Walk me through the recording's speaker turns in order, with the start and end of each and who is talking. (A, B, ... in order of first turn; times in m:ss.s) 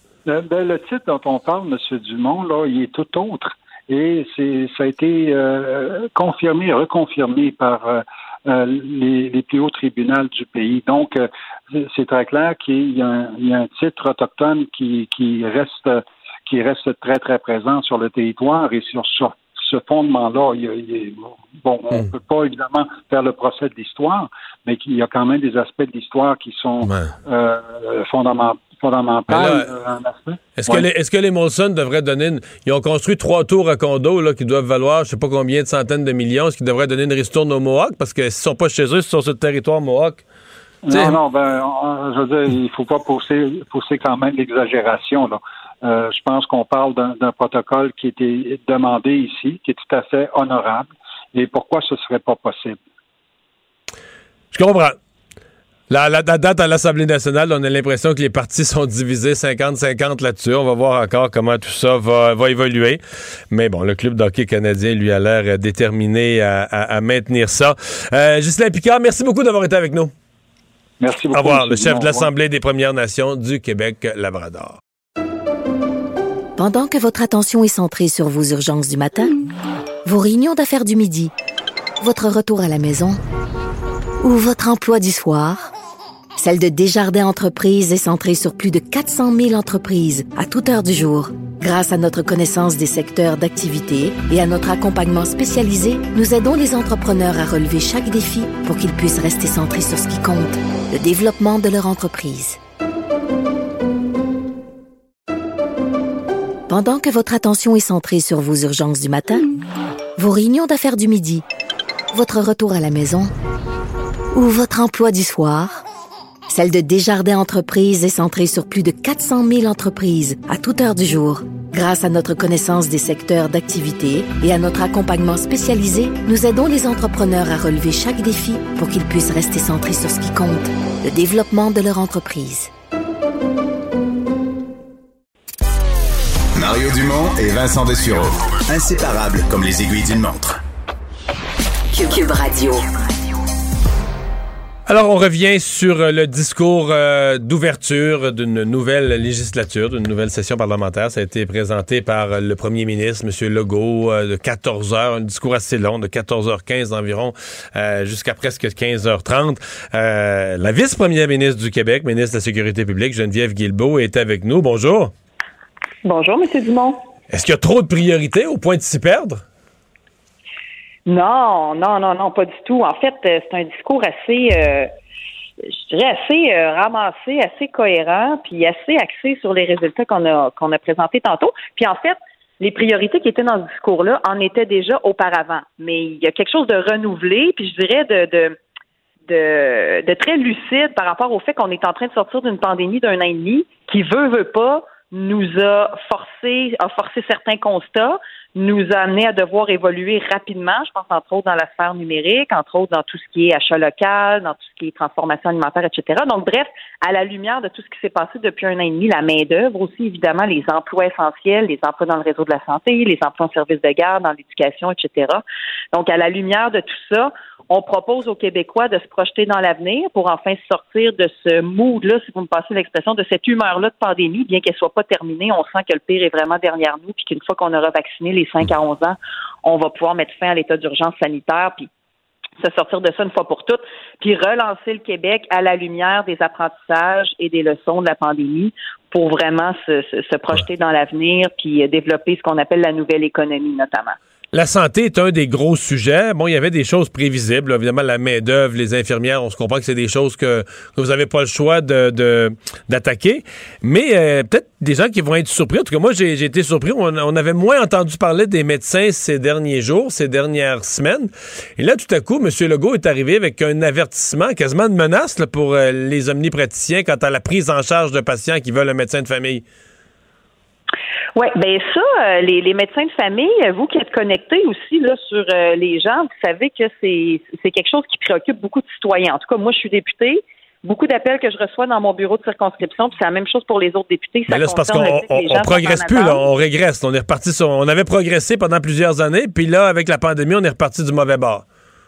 0:00.2-0:30.9 A
0:26.8-0:27.1 B
0:29.3-0:29.7 B
0:30.6-0:40.2 B
0:40.8-0:52.8 A
0:40.9-0:41.2 B
0:54.5-0:55.0 B
0:55.9-1:10.1 B
1:11.0-1:12.3 A
1:11.3-1:14.8 B
1:16.6-1:19.3 C
1:20.0-1:21.3 C
1:22.0-1:23.2 C
1:24.2-1:25.7 C
1:26.4-1:42.6 C
1:46.7-1:49.5 C
1:50.2-1:51.4 C
1:52.1-1:53.3 C
1:54.3-1:55.8 C
1:56.5-2:12.7 C
2:16.6-2:20.6 D
2:21.9-2:22.8 C
2:24.9-2:45.1 B
2:46.0-2:47.0 E
2:47.3-2:49.4 B
2:51.0-2:54.9 E
2:55.6-3:08.6 E
3:09.3-3:51.9 E
3:52.6-4:04.2 E
4:04.5-4:29.6 B
4:31.3-4:46.4 E
4:44.5-4:51.6 B